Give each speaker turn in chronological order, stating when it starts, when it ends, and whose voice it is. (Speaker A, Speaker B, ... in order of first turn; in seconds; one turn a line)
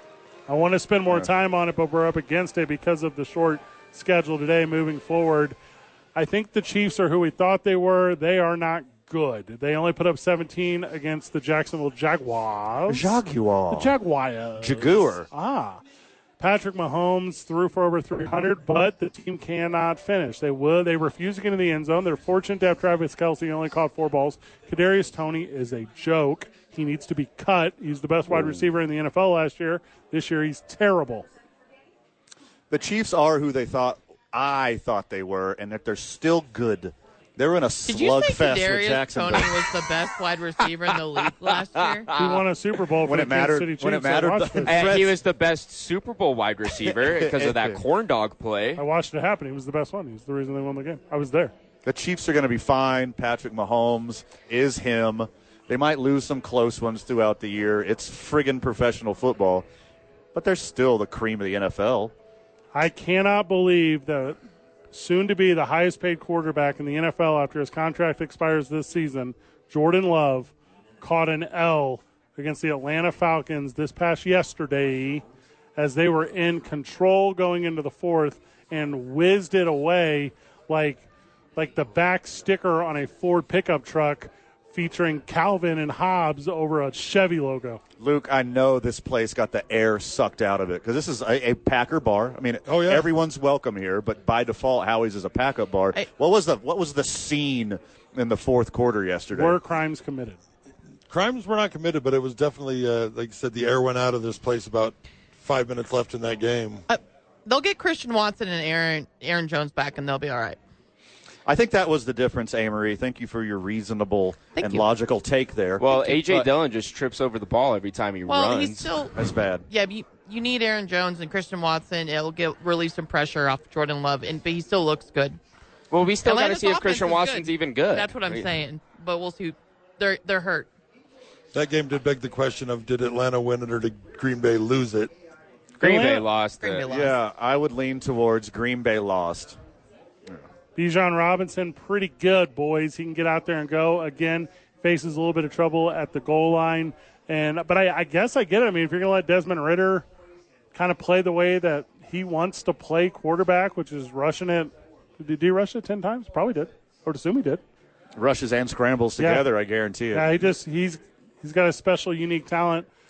Speaker A: 0.5-5.5
Speaker A: 6.1-13.2
Speaker B: 12.9-13.9
Speaker A: 13.7-15.8
Speaker B: 14.6-15.3
Speaker A: 16.4-31.2
Speaker B: 28.3-28.6
Speaker B: 32.7-39.6
Speaker C: 37.9-42.4
Speaker D: 41.6-42.4
Speaker A: 42.1-44.8
Speaker B: 43.0-45.2
Speaker D: 44.6-48.8
Speaker B: 46.8-47.8
Speaker A: 48.8-51.5
Speaker B: 51.8-59.6
Speaker B: 60.3-62.1
Speaker A: 62.7-64.4
Speaker A: 64.9-75.2
Speaker A: 75.8-81.0
Speaker A: 81.5-87.8
Speaker B: 88.0-99.6
Speaker E: 92.7-93.1
Speaker A: 99.3-100.4
Speaker E: 101.1-106.8
Speaker C: 106.9-110.6
Speaker B: 111.5-116.5
Speaker C: 114.5-114.9
Speaker D: 115.8-119.0
Speaker C: 118.3-125.4
Speaker B: 119.1-119.7
Speaker D: 125.9-128.5
Speaker C: 126.2-130.7
Speaker E: 131.5-135.1
Speaker A: 135.8-136.2
Speaker D: 135.8-136.8
Speaker C: 136.6-137.2
Speaker B: 136.9-139.6
Speaker A: 140.7-150.1
Speaker A: 150.7-157.6
Speaker B: 158.2-160.3
Speaker A: 159.2-159.4
Speaker A: 160.1-162.9